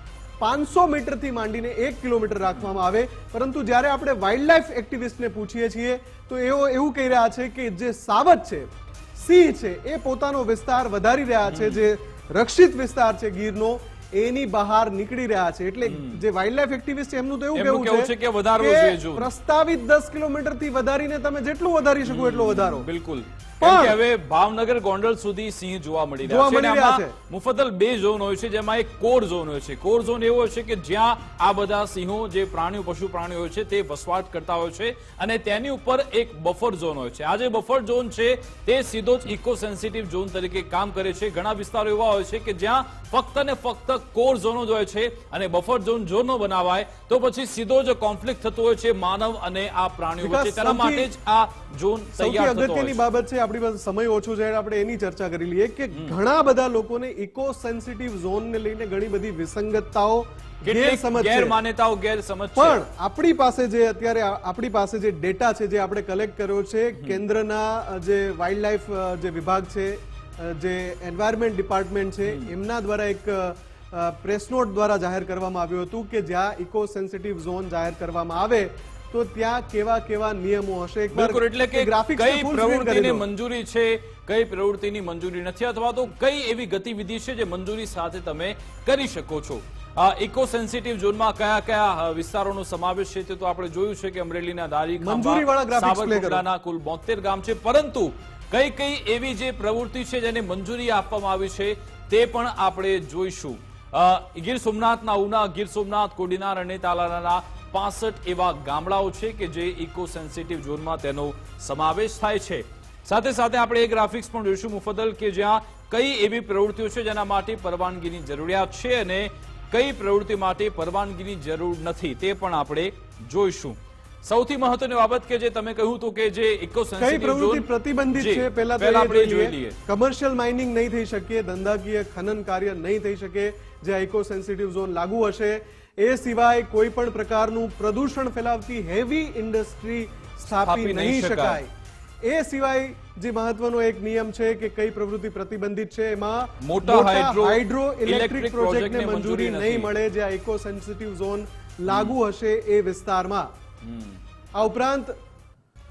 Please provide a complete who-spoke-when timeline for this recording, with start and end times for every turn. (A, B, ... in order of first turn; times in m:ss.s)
0:00.4-0:22.9 A
0:11.4-0:11.9 B
0:15.8-0:16.2 B
0:17.5-0:19.3 B
0:22.0-0:53.0 B
0:23.6-0:24.0 A
0:26.2-0:27.1 A
0:50.2-0:51.1 A
0:52.2-1:01.6 A
1:00.6-1:02.8 B
1:02.6-1:23.2 A
1:12.2-1:12.5 B
1:21.1-2:09.8 B
1:35.0-1:36.4 A
2:07.0-2:21.7 A
2:20.5-2:21.6 B
2:22.2-2:33.5 A
2:26.6-2:29.9 B
2:31.9-2:32.2 B
2:33.8-2:34.2 B
2:34.6-2:35.1 A